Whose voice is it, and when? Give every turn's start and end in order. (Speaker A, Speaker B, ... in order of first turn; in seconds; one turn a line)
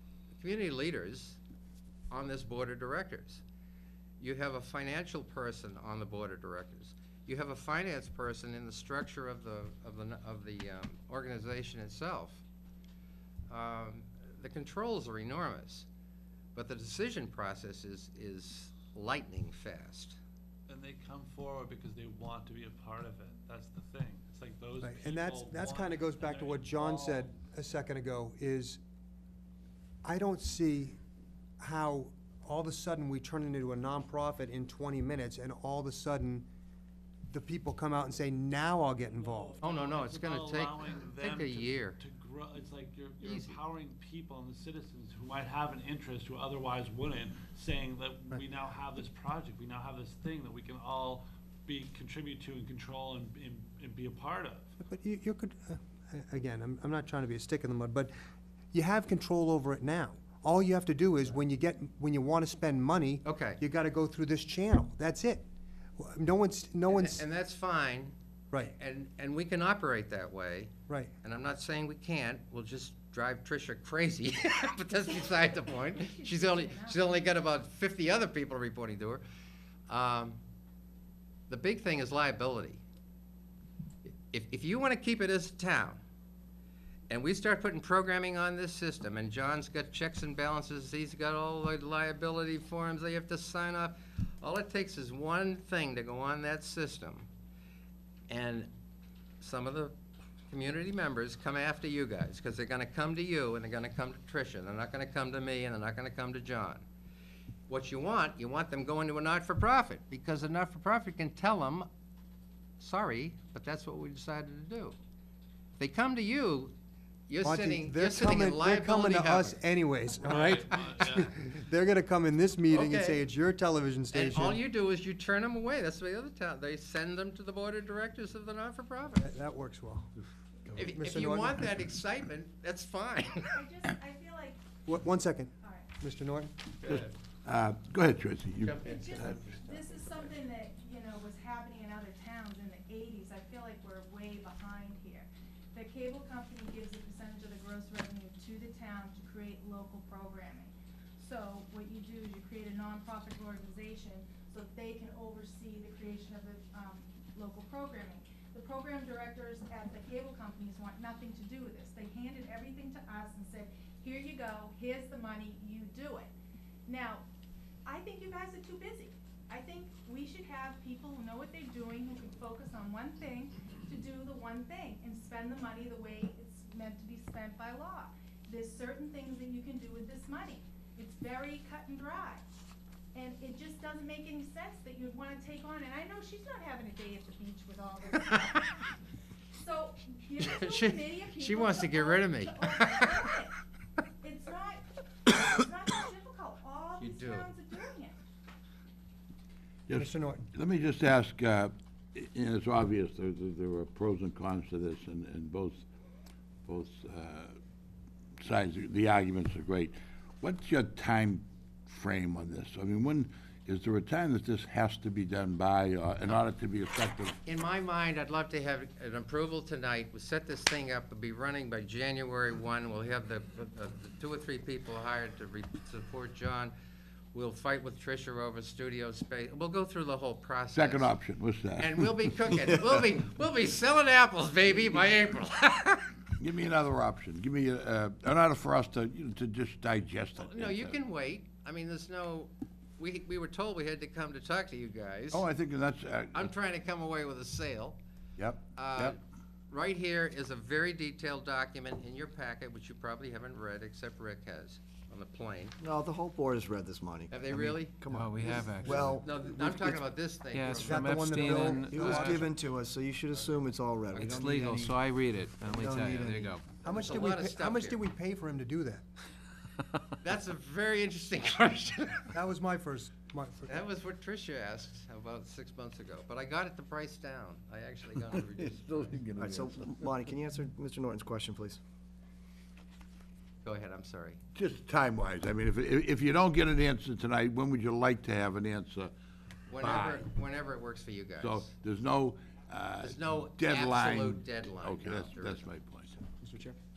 Speaker A: 0.4-1.4
Speaker A: 2.1-3.4
Speaker A: 4.2-12.4
Speaker A: 13.5-15.9
Speaker A: 16.6-20.2
Speaker B: 20.7-27.4
Speaker C: 24.8-28.8
Speaker C: 30.0-31.0
Speaker C: 31.6-36.5
Speaker C: 37.3-39.6
Speaker B: 39.0-54.6
Speaker A: 39.6-42.0
Speaker A: 43.2-43.6
Speaker C: 54.8-58.1
Speaker C: 58.7-67.2
Speaker A: 63.2-63.6
Speaker A: 66.9-79.2
Speaker C: 70.9-71.1
Speaker D: 75.0-77.4
Speaker A: 79.9-80.4
Speaker A: 81.5-82.8
Speaker A: 84.1-86.0
Speaker A: 87.1-97.3
Speaker A: 98.3-98.7
Speaker A: 99.4-100.0
Speaker A: 100.5-106.8
Speaker A: 107.7-111.9
Speaker A: 112.8-115.0
Speaker A: 115.8-116.7
Speaker A: 117.3-119.6
Speaker C: 117.4-124.6
Speaker B: 120.2-121.3
Speaker A: 120.3-120.8
Speaker A: 122.7-123.2
Speaker A: 124.1-129.3
Speaker C: 129.2-130.1
Speaker C: 130.7-131.6
Speaker A: 130.8-133.6
Speaker D: 133.5-134.6
Speaker C: 134.9-136.5
Speaker D: 135.6-135.9
Speaker E: 136.9-139.6
Speaker A: 138.7-139.2
Speaker D: 138.8-166.3
Speaker D: 166.9-167.2
Speaker D: 167.9-182.4
Speaker D: 183.1-188.7
Speaker A: 188.1-188.7
Speaker D: 189.6-193.6
Speaker A: 190.4-193.2
Speaker D: 194.2-198.2
Speaker A: 197.0-197.5
Speaker E: 199.9-205.9
Speaker C: 199.9-200.4
Speaker E: 206.7-207.6
Speaker E: 208.4-217.4
Speaker A: 217.4-226.7
Speaker A: 227.3-231.1
Speaker E: 230.7-232.0
Speaker A: 231.8-236.1
Speaker E: 236.4-241.0
Speaker A: 240.4-245.4
Speaker E: 245.3-246.5
Speaker A: 246.3-248.0
Speaker E: 248.4-249.2
Speaker A: 248.8-249.2
Speaker A: 249.7-255.8
Speaker F: 255.8-259.9
Speaker A: 257.3-261.8
Speaker G: 257.7-259.1
Speaker G: 260.5-262.4
Speaker C: 260.7-262.5
Speaker F: 261.8-265.0
Speaker G: 264.2-266.6
Speaker F: 265.6-266.6
Speaker C: 266.8-269.0
Speaker A: 266.9-268.0
Speaker A: 270.2-272.4
Speaker C: 272.3-273.7
Speaker A: 273.7-279.2
Speaker E: 278.6-280.1
Speaker F: 279.4-281.8
Speaker A: 283.6-284.4
Speaker E: 284.6-289.1
Speaker A: 289.7-291.7
Speaker E: 289.8-290.2
Speaker E: 291.4-296.2
Speaker A: 293.0-295.7
Speaker C: 296.4-296.7